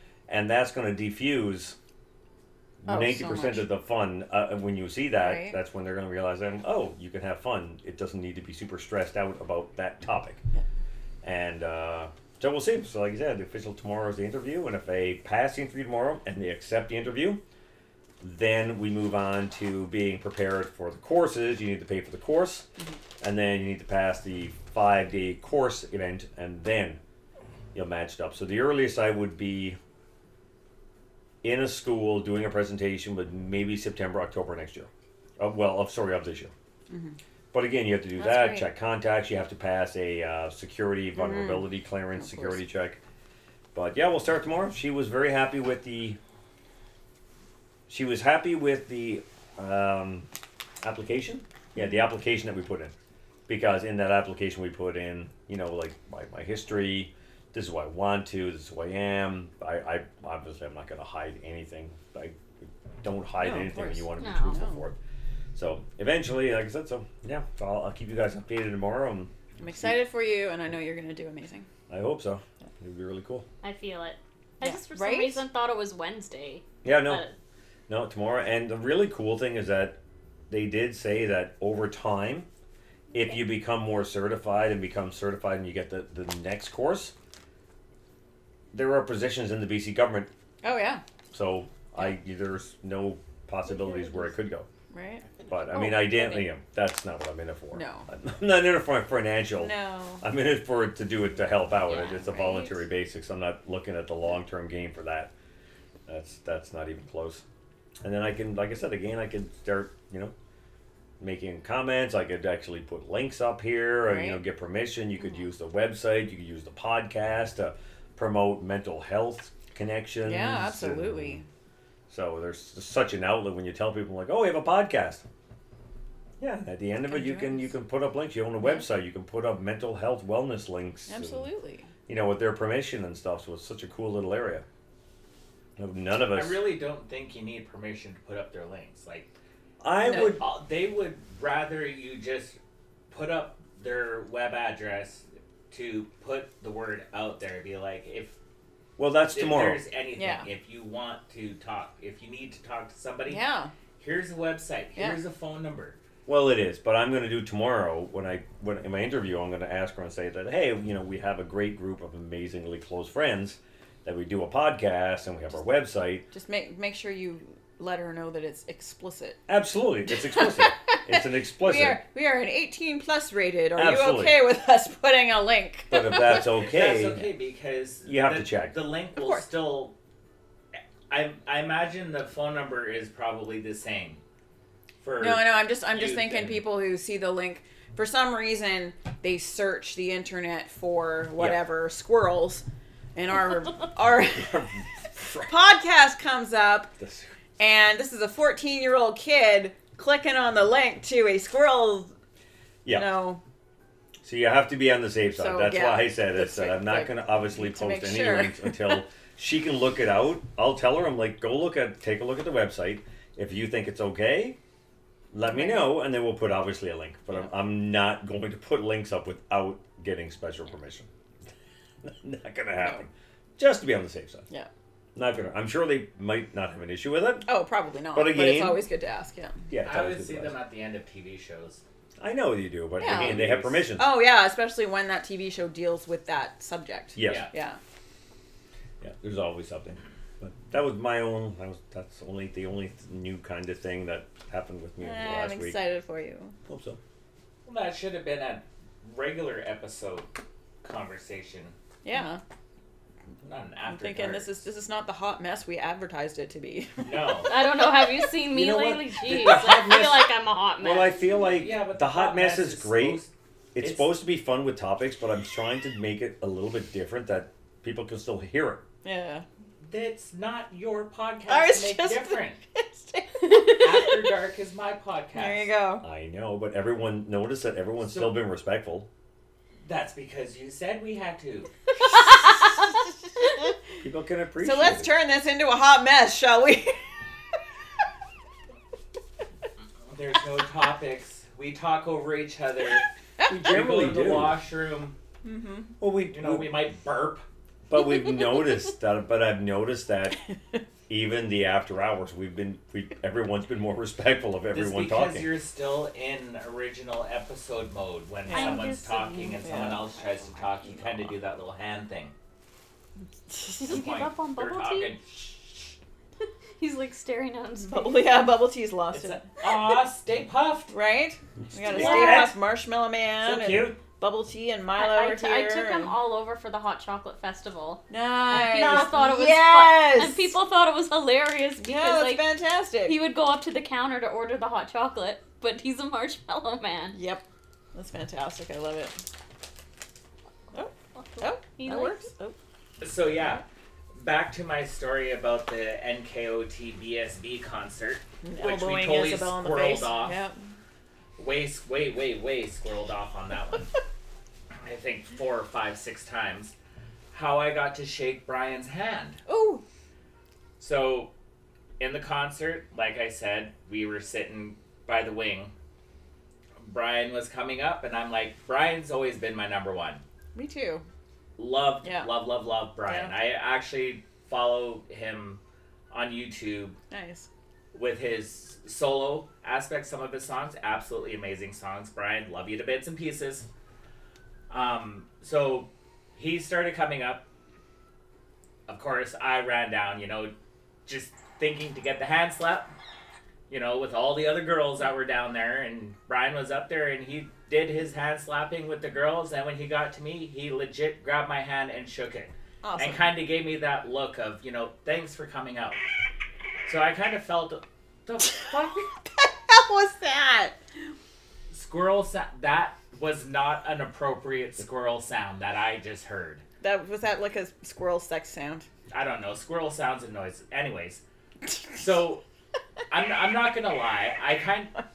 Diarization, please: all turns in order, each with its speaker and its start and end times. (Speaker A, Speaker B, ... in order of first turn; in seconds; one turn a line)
Speaker A: 0.3-1.8
Speaker A: 2.8-10.4
Speaker B: 2.9-3.7
Speaker B: 5.2-5.6
Speaker A: 11.2-17.4
Speaker A: 18.2-22.7
Speaker A: 23.2-27.0
Speaker A: 27.7-29.8
Speaker A: 31.4-36.5
Speaker B: 36.9-37.2
Speaker A: 37.5-43.0
Speaker B: 38.2-38.7
Speaker B: 41.1-42.6
Speaker A: 43.7-46.2
Speaker A: 47.9-50.3
Speaker A: 50.8-52.9
Speaker A: 53.5-62.4
Speaker A: 63.0-65.0
Speaker B: 63.4-64.8
Speaker C: 64.2-64.6
Speaker A: 65.5-70.0
Speaker B: 69.6-71.7
Speaker A: 71.9-73.5
Speaker C: 73.6-77.3
Speaker B: 74.6-75.4
Speaker A: 76.8-77.2
Speaker A: 77.9-80.0
Speaker A: 80.5-82.5
Speaker A: 83.1-87.1
Speaker A: 88.7-90.3
Speaker B: 90.6-91.0
Speaker A: 91.3-94.7
Speaker B: 93.7-94.3
Speaker B: 94.9-96.5
Speaker A: 95.5-105.3
Speaker B: 97.7-98.1
Speaker B: 99.6-100.2
Speaker B: 101.9-102.8
Speaker A: 106.1-107.4
Speaker A: 108.0-110.3
Speaker A: 111.2-121.4
Speaker B: 114.1-114.4
Speaker B: 120.2-121.5
Speaker A: 122.1-125.2
Speaker A: 126.4-131.5
Speaker B: 127.1-127.7
Speaker B: 131.1-131.9
Speaker A: 132.1-134.7
Speaker A: 135.8-136.6
Speaker D: 136.3-139.3
Speaker A: 139.8-140.4
Speaker B: 140.0-140.4
Speaker D: 140.1-142.6
Speaker D: 143.1-148.4
Speaker A: 149.0-149.8
Speaker D: 149.3-153.4
Speaker B: 150.2-150.5
Speaker B: 153.3-153.7
Speaker D: 154.0-156.0
Speaker A: 156.3-166.3
Speaker B: 166.3-169.4
Speaker A: 169.5-172.0
Speaker B: 170.2-176.4
Speaker A: 173.8-174.4
Speaker A: 175.9-177.2
Speaker D: 176.5-179.9
Speaker A: 178.1-178.8
Speaker B: 179.2-179.4
Speaker D: 181.1-184.2
Speaker D: 185.0-186.6
Speaker B: 185.2-192.6
Speaker A: 191.4-191.6
Speaker B: 193.1-194.6
Speaker A: 194.1-195.6
Speaker B: 195.3-196.9
Speaker A: 197.0-197.3
Speaker B: 197.6-202.1
Speaker A: 202.8-203.2
Speaker B: 202.9-203.4
Speaker A: 204.2-214.6
Speaker B: 205.3-209.0
Speaker A: 215.3-221.1
Speaker B: 215.5-215.9
Speaker A: 222.0-224.5
Speaker A: 225.1-227.5
Speaker B: 227.4-229.6
Speaker A: 228.1-228.9
Speaker A: 229.7-230.6
Speaker D: 229.8-231.8
Speaker A: 232.2-234.1
Speaker B: 233.0-233.4
Speaker D: 233.0-233.9
Speaker B: 234.0-237.8
Speaker A: 237.1-237.5
Speaker D: 237.2-237.5
Speaker A: 239.0-245.8
Speaker B: 245.0-246.6
Speaker A: 246.7-247.0
Speaker D: 247.6-250.3
Speaker D: 250.8-251.7
Speaker B: 252.0-252.4
Speaker D: 253.4-254.5
Speaker B: 253.9-258.3
Speaker D: 257.0-257.5
Speaker C: 257.5-261.2
Speaker A: 258.5-263.2
Speaker D: 261.3-264.1
Speaker A: 263.7-268.9
Speaker B: 269.0-269.4
Speaker D: 269.8-272.6
Speaker B: 271.5-273.9
Speaker D: 273.6-275.7
Speaker B: 275.4-276.1
Speaker A: 276.0-279.1
Speaker D: 278.0-278.4
Speaker D: 279.9-281.7
Speaker B: 282.2-282.6
Speaker A: 284.0-285.1
Speaker B: 284.6-287.0
Speaker D: 290.1-295.1
Speaker A: 293.5-294.6
Speaker B: 295.4-295.9
Speaker A: 296.0-296.8
Speaker D: 296.3-297.4
Speaker A: 297.9-300.4
Speaker A: 301.1-305.5
Speaker D: 304.7-312.3
Speaker B: 308.5-309.0
Speaker C: 308.5-309.8
Speaker B: 309.6-310.1
Speaker B: 313.5-314.0
Speaker C: 313.8-315.1
Speaker D: 313.9-316.0
Speaker C: 316.8-318.2
Speaker B: 317.9-319.7
Speaker D: 319.1-320.9
Speaker B: 320.9-326.1
Speaker D: 321.9-322.6
Speaker C: 321.9-322.5
Speaker A: 321.9-322.2
Speaker D: 323.4-324.0
Speaker C: 324.9-332.5
Speaker B: 328.1-330.5
Speaker D: 328.6-329.1
Speaker B: 331.8-333.2
Speaker C: 333.1-337.2
Speaker B: 337.1-339.1
Speaker B: 340.7-342.6
Speaker C: 341.1-342.3
Speaker D: 343.0-343.6
Speaker D: 344.1-350.4
Speaker B: 348.4-350.6
Speaker D: 351.4-353.9
Speaker D: 354.8-356.7
Speaker D: 357.3-359.4
Speaker B: 359.5-359.8
Speaker D: 360.8-361.3
Speaker D: 362.0-365.7
Speaker D: 366.8-370.2
Speaker B: 370.6-371.1
Speaker D: 371.6-376.9
Speaker B: 372.0-372.3
Speaker B: 373.1-373.3
Speaker B: 377.1-377.5
Speaker D: 377.9-383.7
Speaker D: 384.7-387.4
Speaker D: 388.9-390.5
Speaker D: 391.1-392.9
Speaker D: 393.7-406.0
Speaker B: 402.8-403.3
Speaker D: 406.9-409.1
Speaker B: 409.3-410.8
Speaker D: 411.7-416.6
Speaker B: 416.8-418.9
Speaker D: 419.1-421.2
Speaker D: 421.9-422.4
Speaker D: 423.1-424.9